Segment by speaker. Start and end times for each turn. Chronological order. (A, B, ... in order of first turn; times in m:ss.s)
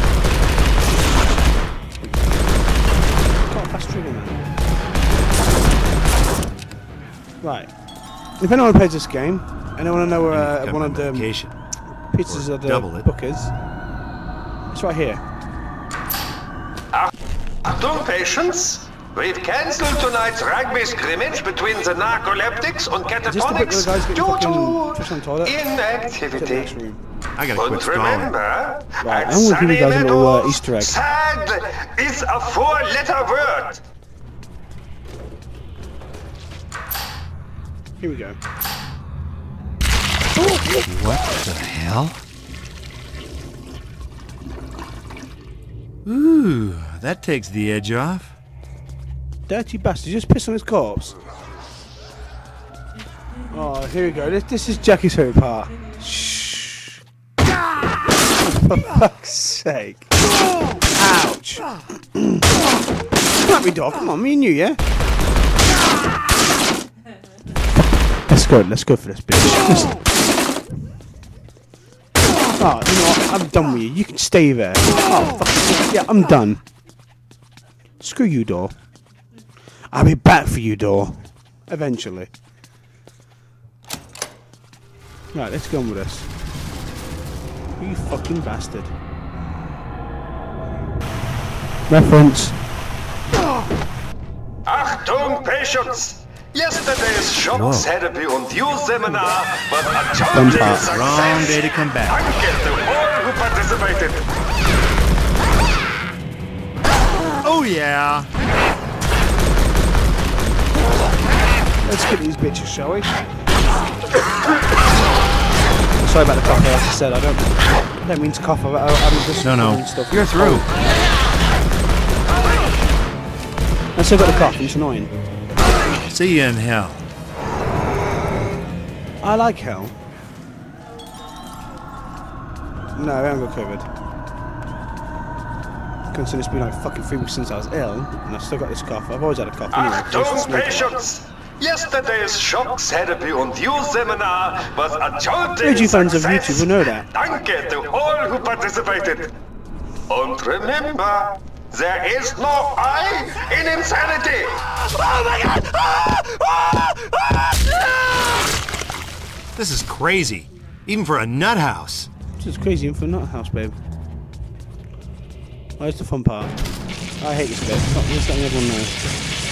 0:03.4-0:04.4 A
0:07.4-0:07.7 A
0:08.4-0:11.3 A
0:10.3-0:11.5 B
0:12.1-0:13.5 A
0:12.2-0:13.1 B
0:14.7-0:15.2 A
0:17.6-0:26.8 C
0:23.2-0:25.6 A
0:26.3-0:27.0 A
0:27.4-0:28.3 B
0:27.5-0:33.8 C
0:29.0-0:31.0 A
0:38.0-0:38.4 A
0:40.7-0:42.2 B
0:46.0-0:48.3 B
0:49.5-0:51.2 A
0:53.5-0:57.0 A
0:58.4-1:00.1 A
1:00.9-1:02.5 A
1:03.4-1:04.8 A
1:07.8-1:10.0 A
1:12.6-1:16.6 A
1:18.0-1:18.7 A
1:19.9-1:22.3 A
1:25.3-1:26.3 A
1:27.8-1:28.9 A
1:31.9-1:32.6 A
1:34.6-1:44.3 C
1:37.5-1:37.9 B
1:40.3-1:40.9 A
1:40.7-1:42.2 B
1:47.4-1:48.3 B
1:51.8-1:53.4 A
1:56.0-2:00.7 A
1:59.4-2:00.7 B
2:04.0-2:05.1 A
2:06.1-2:07.0 B
2:09.2-2:09.9 A
2:12.9-2:13.9 A
2:16.1-2:20.9 A
2:19.7-2:29.3 C
2:25.6-2:27.1 A
2:30.1-2:34.6 C
2:35.1-2:37.2 B
2:39.6-2:42.1 B
2:42.4-2:43.8 A
2:45.8-2:46.6 A
2:47.2-2:49.1 A